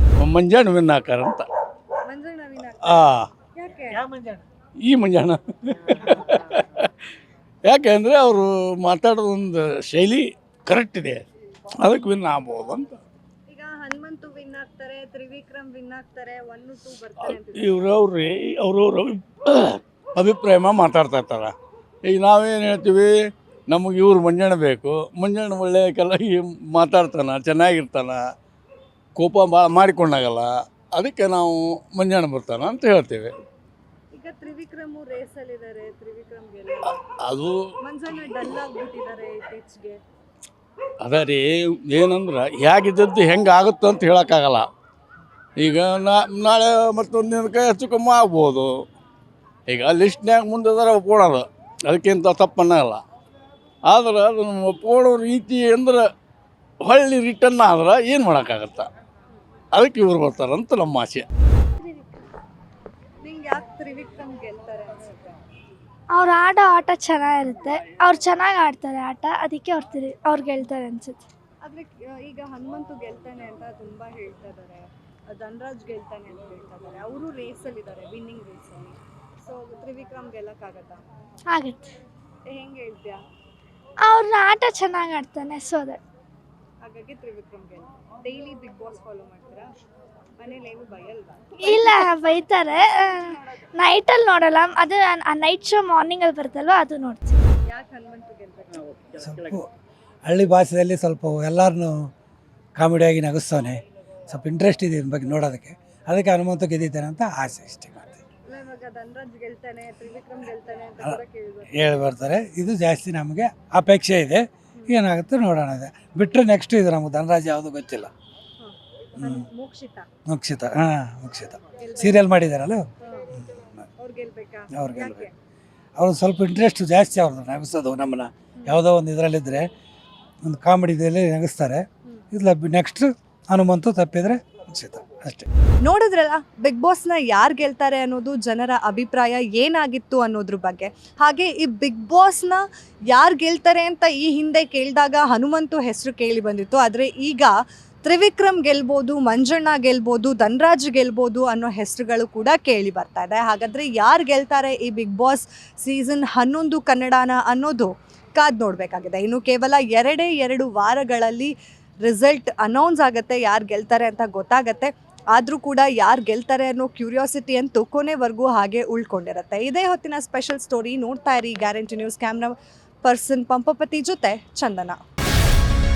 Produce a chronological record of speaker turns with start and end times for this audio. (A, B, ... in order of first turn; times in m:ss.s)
0:00.2-0:01.4 A
0:02.1-0:04.0 B
0:02.8-0:03.2 A
0:04.8-0:06.9 A
0:07.6-0:11.2 A
0:11.8-0:13.0 A
0:13.5-0:17.9 B
0:17.2-0:21.5 A
0:22.0-0:23.1 A
0:23.7-0:28.2 A
0:29.2-0:33.3 A
0:34.1-0:37.0 B
0:37.2-0:37.5 A
0:37.8-0:40.0 B
0:41.0-0:44.7 A
0:45.6-0:48.7 A
0:49.7-0:53.0 A
0:53.9-0:56.0 A
0:56.8-0:58.9 A
0:59.7-1:01.2 A
1:03.2-1:05.4 B
1:06.2-1:11.2 C
1:11.6-1:21.0 B
1:21.5-1:21.8 C
1:22.4-1:23.2 B
1:24.0-1:26.0 C
1:26.8-1:29.7 B
1:30.4-1:31.8 B
1:31.6-1:33.2 C
1:33.8-1:37.4 C
1:37.7-1:38.8 B
1:39.2-1:39.7 D
1:40.2-1:42.1 D
1:42.8-1:48.2 D
1:48.4-1:51.7 B
1:51.7-1:58.1 D
1:58.6-2:00.0 B
1:59.2-1:59.4 D
2:00.3-2:02.9 D
2:01.8-2:02.2 B
2:03.0-2:03.3 B
2:04.0-2:05.3 B
2:04.7-2:05.3 D
2:06.0-2:09.7 D
2:10.4-2:15.5 D
2:15.8-2:55.0 E